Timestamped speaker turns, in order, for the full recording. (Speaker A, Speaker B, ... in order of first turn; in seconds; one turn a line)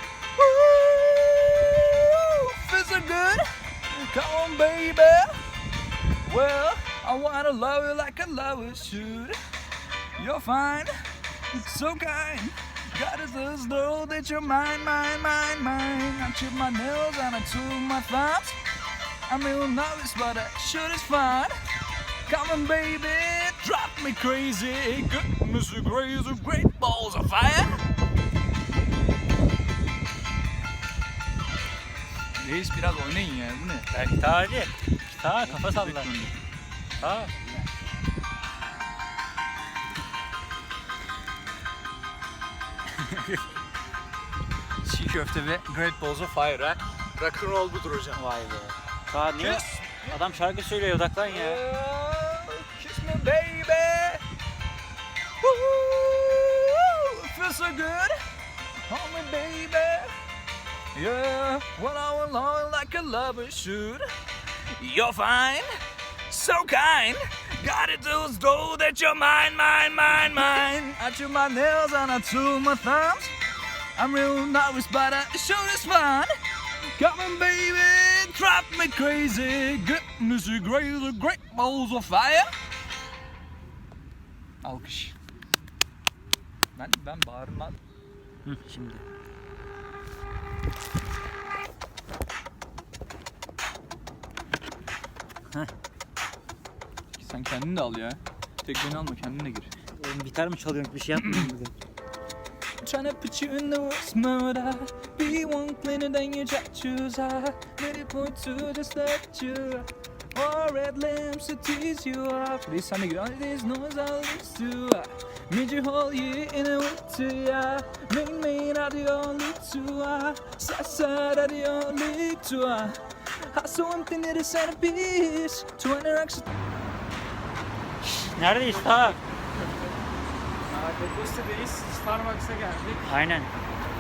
Speaker A: 0.4-5.4
Speaker A: 6.2-9.4
Speaker A: 10.2-10.9
Speaker A: 11.5-18.6
Speaker A: 19.3-21.5
Speaker A: 22.3-27.9
Speaker A: 32.4-33.9
Speaker B: 33.9-36.1
Speaker A: 35.4-36.3
Speaker B: 37.0-37.3
Speaker B: 43.1-43.4
Speaker A: 44.8-48.2
Speaker B: 48.1-51.6
Speaker A: 49.4-50.2
Speaker A: 51.2-54.2
Speaker A: 55.4-58.2
Speaker A: 58.9-60.1
Speaker A: 60.9-64.0
Speaker A: 64.7-65.7
Speaker A: 66.3-73.3
Speaker A: 74.0-76.3
Speaker A: 77.0-82.5
Speaker A: 84.6-85.2
Speaker A: 86.8-87.8
Speaker B: 88.5-89.0
Speaker A: 97.2-99.7
Speaker B: 100.0-101.7
Speaker A: 101.2-101.5
Speaker A: 102.8-126.5
Speaker B: 128.0-129.2
Speaker C: 130.7-133.2
Speaker B: 133.1-133.5